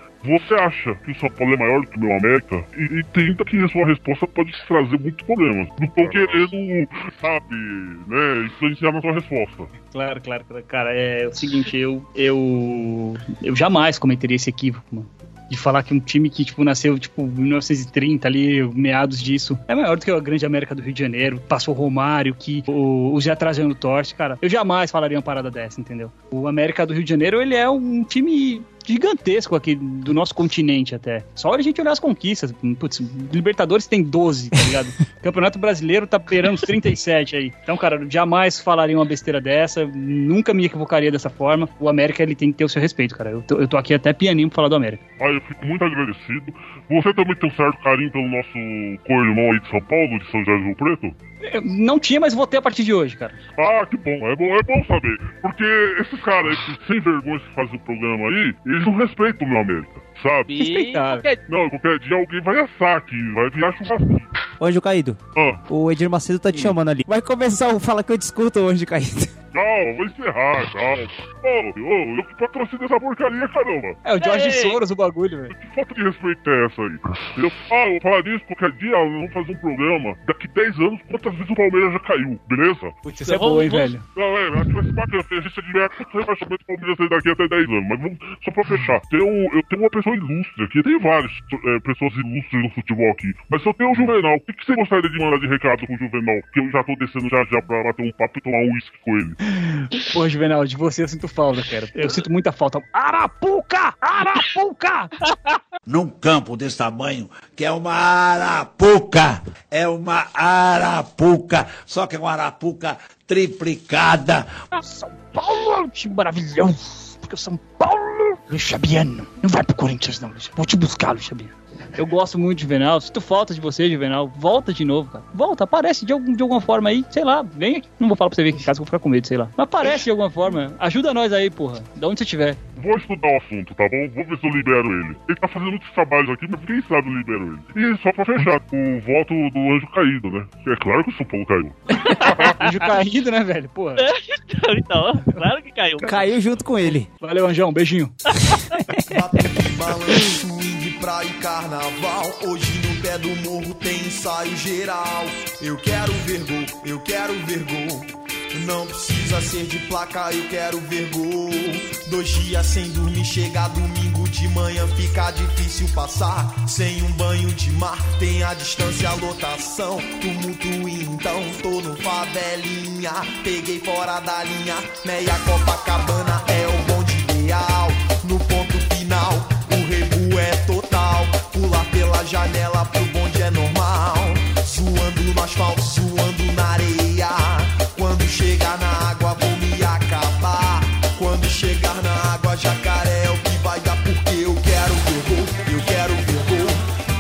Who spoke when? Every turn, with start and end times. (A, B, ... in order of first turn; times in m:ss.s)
0:00.2-0:09.7 A
0:09.9-0:45.0 B
0:45.2-0:51.2 A
0:51.4-0:53.4 B
0:53.6-1:00.6 A
1:00.5-1:01.4 C
1:00.6-1:01.2 B
1:01.5-1:04.3 A
1:04.6-1:09.3 D
1:05.3-1:05.6 A
1:09.5-1:14.0 A
1:14.0-1:15.5 B
1:14.2-1:14.8 C
1:15.5-1:23.0 A
1:23.0-1:24.0 B
1:23.2-1:23.9 C
1:24.1-1:39.4 A
1:39.6-1:45.1 B
1:45.3-1:45.6 C
1:45.9-1:54.5 E
1:54.7-2:12.6 B
2:12.8-2:22.6 A
2:22.1-2:24.1 B
2:24.0-2:26.4 C
2:26.0-2:27.1 D
2:27.2-2:28.2 B
2:29.1-3:16.8 F